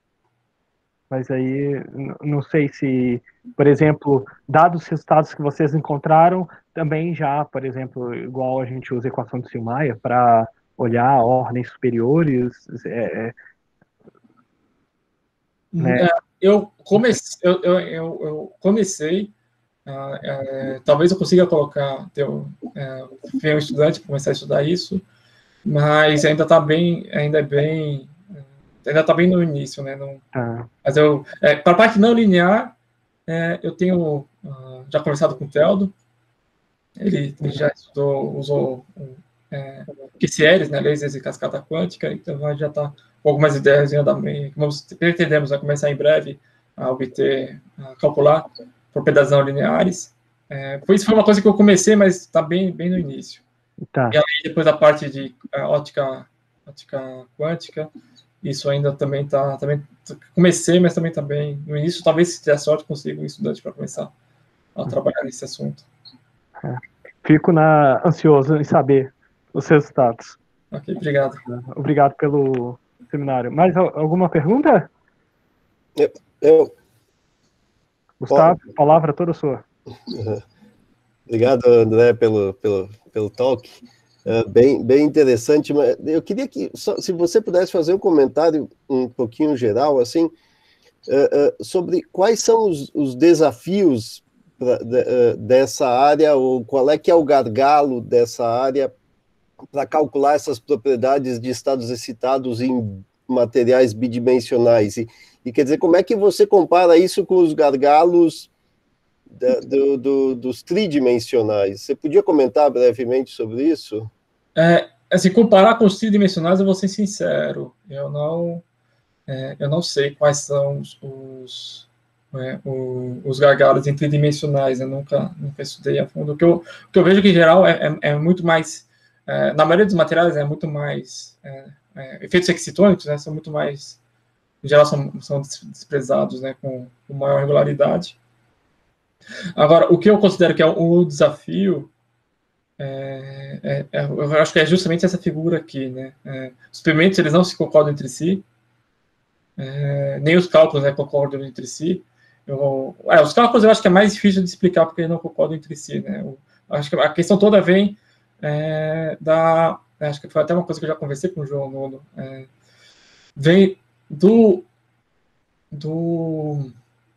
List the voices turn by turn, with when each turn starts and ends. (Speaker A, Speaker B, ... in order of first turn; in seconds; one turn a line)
Speaker A: 1.1-13.3
Speaker B: 15.7-19.3
Speaker A: 15.8-16.1
Speaker B: 19.9-25.0
Speaker B: 25.6-28.2
Speaker B: 28.8-30.2
Speaker A: 30.3-30.7
Speaker B: 30.8-32.7
Speaker B: 33.3-35.9
Speaker B: 37.0-53.4
Speaker B: 54.1-57.9
Speaker B: 58.4-64.1
Speaker B: 64.7-65.8
Speaker A: 66.6-70.4
Speaker B: 70.7-71.4
Speaker A: 71.5-74.9
Speaker C: 76.0-76.7
Speaker A: 78.2-79.6
Speaker C: 80.1-80.4
Speaker C: 81.3-90.3
Speaker C: 91.1-98.9
Speaker C: 99.7-108.5
Speaker C: 109.4-114.1
Speaker B: 114.5-118.6
Speaker B: 119.3-134.0
Speaker B: 134.6-138.2
Speaker B: 139.6-141.9
Speaker B: 142.8-148.4
Speaker B: 149.6-162.5
Speaker B: 163.3-164.7
Speaker B: 165.7-166.7